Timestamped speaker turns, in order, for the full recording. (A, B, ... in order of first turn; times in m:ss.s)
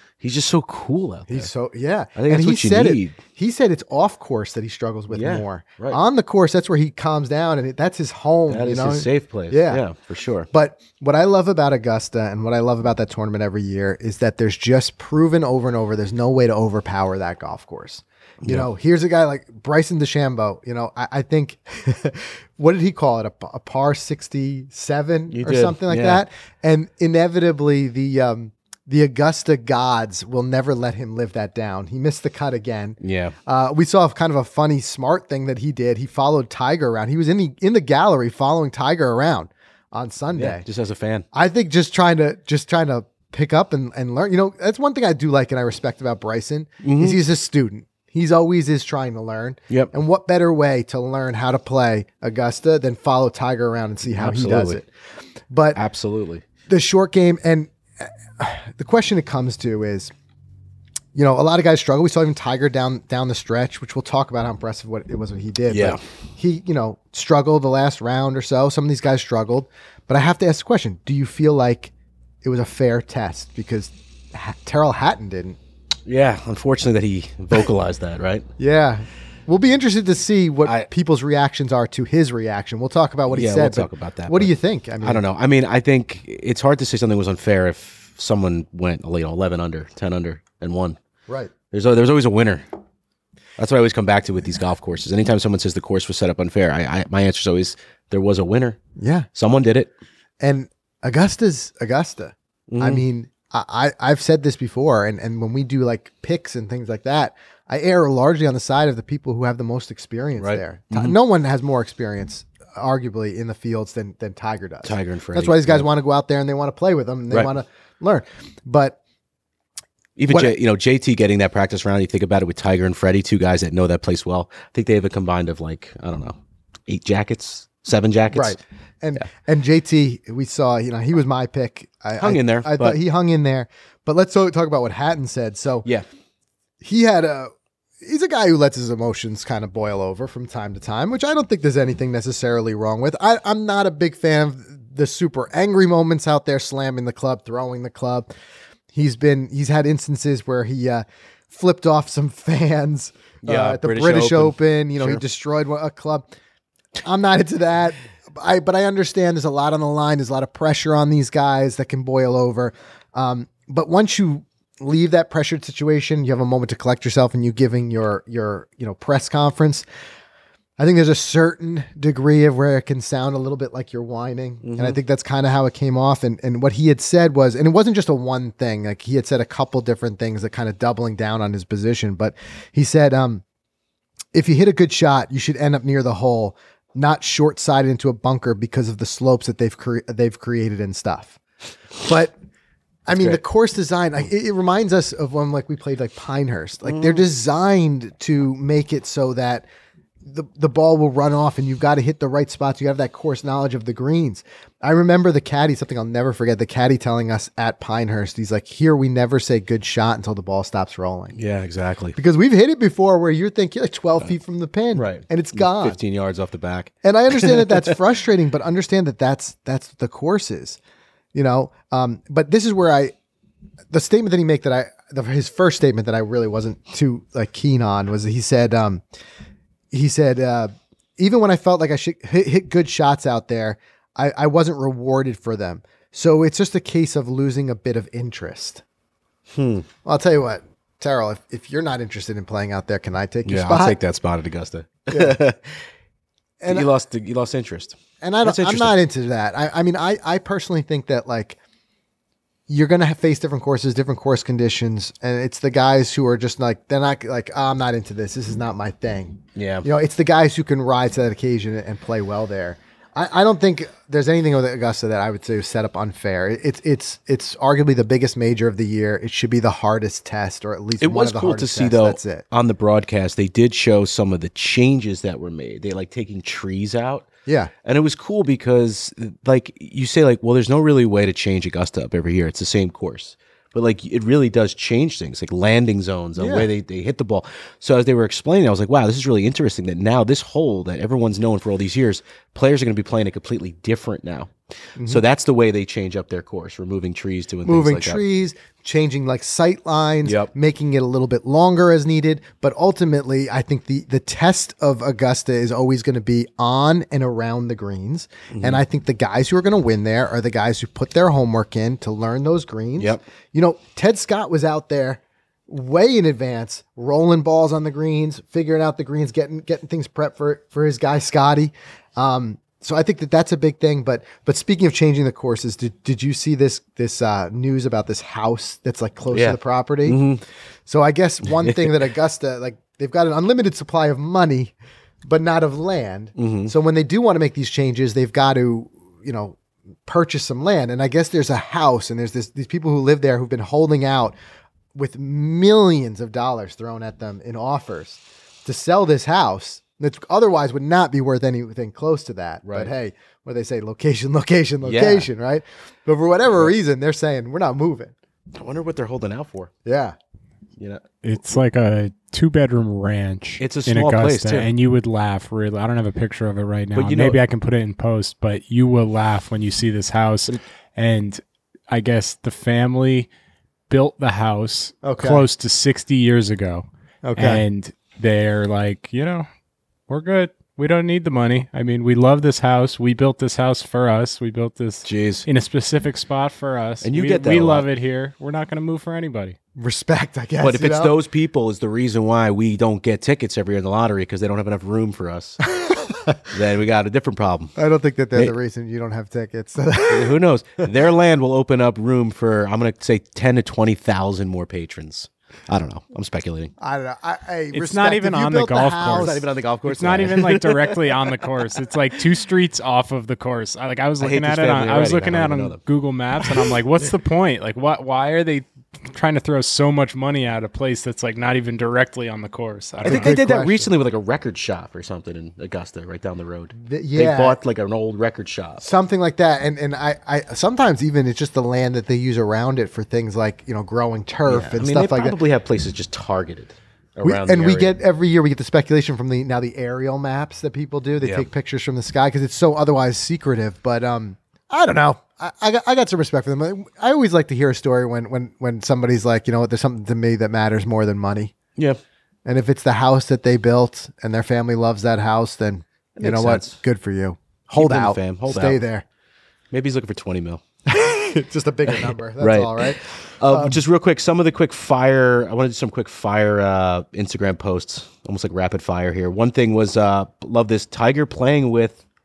0:00.2-0:01.5 A
0:01.3-0:09.8 B
0:02.2-0:03.2 A
0:05.1-0:06.0 A
0:08.5-0:10.5 A
0:10.5-0:40.6 B
0:25.3-0:26.2 A
0:33.0-0:33.3 A
0:40.3-0:41.2 A
0:41.3-0:54.9 B
0:46.8-0:47.2 A
0:54.0-0:54.8 A
0:55.5-0:55.8 B
0:55.8-0:56.4 A
0:56.7-1:00.1 B
1:01.1-1:11.9 B
1:05.7-1:06.0 A
1:12.4-1:15.6 B
1:16.0-1:18.5 A
1:18.6-1:25.2 B
1:23.3-1:31.0 A
1:31.7-1:32.6 A
1:33.6-1:38.8 A
1:39.0-1:39.3 B
1:39.3-1:39.9 A
1:40.4-1:59.0 B
1:42.7-1:43.0 A
1:50.4-1:51.1 A
1:54.8-1:55.9 A
2:00.2-2:08.6 A
2:00.3-2:00.5 B
2:08.3-2:15.9 B
2:12.2-2:13.0 A
2:16.8-2:17.5 B
2:18.0-2:28.3 B
2:28.9-2:36.2 B
2:33.4-2:35.2 A
2:37.0-2:49.8 B
2:50.8-3:03.4 B
2:54.6-2:55.0 A
3:04.3-3:11.4 B
3:12.0-3:12.3 B
3:13.1-3:19.6 B
3:13.1-3:13.4 A
3:16.8-3:17.2 A
3:20.2-3:31.4 B
3:31.3-3:32.2 A
3:32.2-3:36.0 B
3:34.9-3:37.9 A
3:37.0-3:40.8 B
3:41.3-3:43.1 B
3:43.9-3:49.0 B
3:49.9-3:58.8 B
3:59.5-3:59.9 A
4:00.0-4:04.0 B
4:03.4-4:05.8 A
4:05.1-4:05.4 B
4:06.6-4:06.9 B
4:06.7-4:08.9 A
4:08.2-4:11.6 B
4:12.7-4:32.4 B
4:19.6-4:19.8 A
4:31.0-4:37.3 A
4:37.4-4:37.7 B
4:37.8-4:58.2 A
4:46.4-4:46.7 B
4:55.0-4:55.2 B
4:57.6-5:30.2 B
5:00.2-5:00.5 A
5:08.5-5:08.8 A
5:29.3-5:30.4 A
5:30.8-5:44.3 B
5:31.4-5:32.1 A
5:36.4-5:36.7 A
5:44.9-5:58.1 B
5:52.6-5:52.9 A
5:54.8-5:55.3 A
5:58.6-5:59.7 A
5:59.8-6:00.2 B
6:00.8-6:01.0 A
6:01.2-6:13.3 C
6:03.6-6:04.7 A
6:06.9-6:07.4 A
6:13.9-6:16.8 C
6:15.0-6:15.4 B
6:17.2-6:17.6 B
6:17.4-6:19.5 C
6:20.1-6:29.6 C
6:25.0-6:25.5 A
6:27.0-6:27.8 A
6:29.8-6:31.1 B
6:30.6-6:35.6 A
6:35.8-6:36.4 B
6:36.5-6:37.7 A
6:37.8-6:40.4 B
6:40.1-6:46.7 A
6:46.8-6:49.4 B
6:47.7-7:03.3 C
6:49.0-6:51.2 A
6:54.2-6:55.8 A
7:03.0-7:03.9 B
7:03.0-7:08.8 A
7:06.7-7:07.6 B
7:08.8-7:15.4 B
7:14.5-7:18.0 A
7:17.2-7:31.5 B
7:21.2-7:21.5 A
7:32.4-7:39.0 B
7:36.2-7:36.8 A
7:37.7-7:38.8 A
7:39.7-7:40.6 A
7:40.9-7:43.8 B
7:41.9-7:52.0 A